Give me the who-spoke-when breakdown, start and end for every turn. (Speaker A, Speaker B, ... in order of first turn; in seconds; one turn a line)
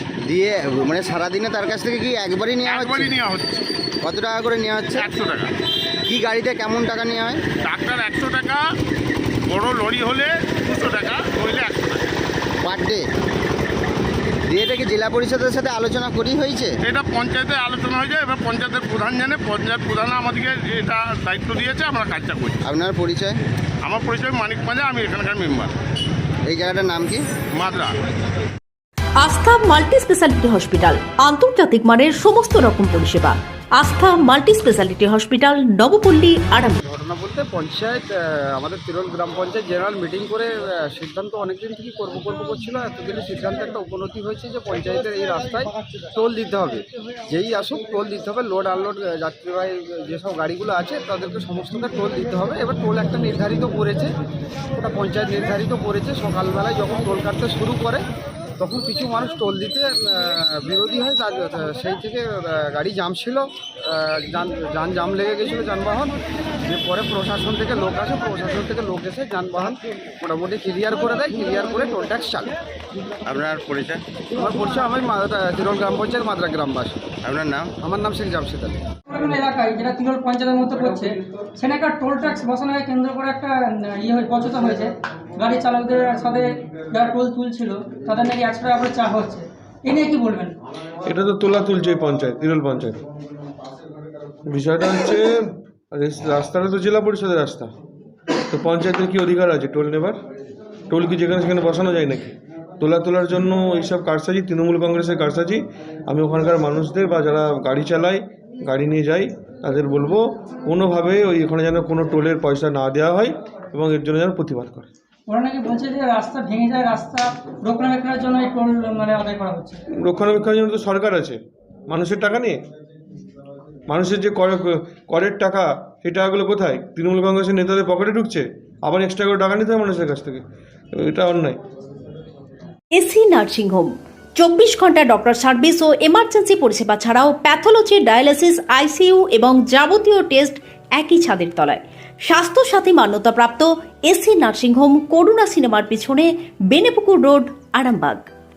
Speaker A: 0.2-3.1
Speaker B: 2.6-3.6
Speaker A: 4.0-5.1
Speaker B: 4.9-5.5
Speaker A: 6.0-7.4
Speaker B: 7.6-8.6
Speaker B: 9.5-12.1
Speaker A: 12.6-13.0
Speaker A: 14.5-16.8
Speaker B: 16.8-22.7
Speaker A: 22.6-23.4
Speaker B: 23.8-25.7
Speaker A: 26.5-27.2
Speaker B: 27.5-27.9
Speaker C: 29.2-36.8
Speaker D: 36.8-54.1
Speaker D: 54.7-58.0
Speaker D: 58.6-72.5
Speaker A: 73.2-74.0
Speaker D: 74.2-78.8
Speaker A: 77.2-77.7
Speaker E: 79.1-90.5
Speaker F: 91.0-93.0
Speaker F: 94.5-95.3
Speaker F: 95.9-97.7
Speaker F: 98.5-100.2
Speaker F: 100.9-114.9
Speaker E: 115.3-119.8
Speaker F: 120.0-122.6
Speaker F: 123.9-130.4
Speaker F: 130.9-131.6
Speaker C: 132.9-148.2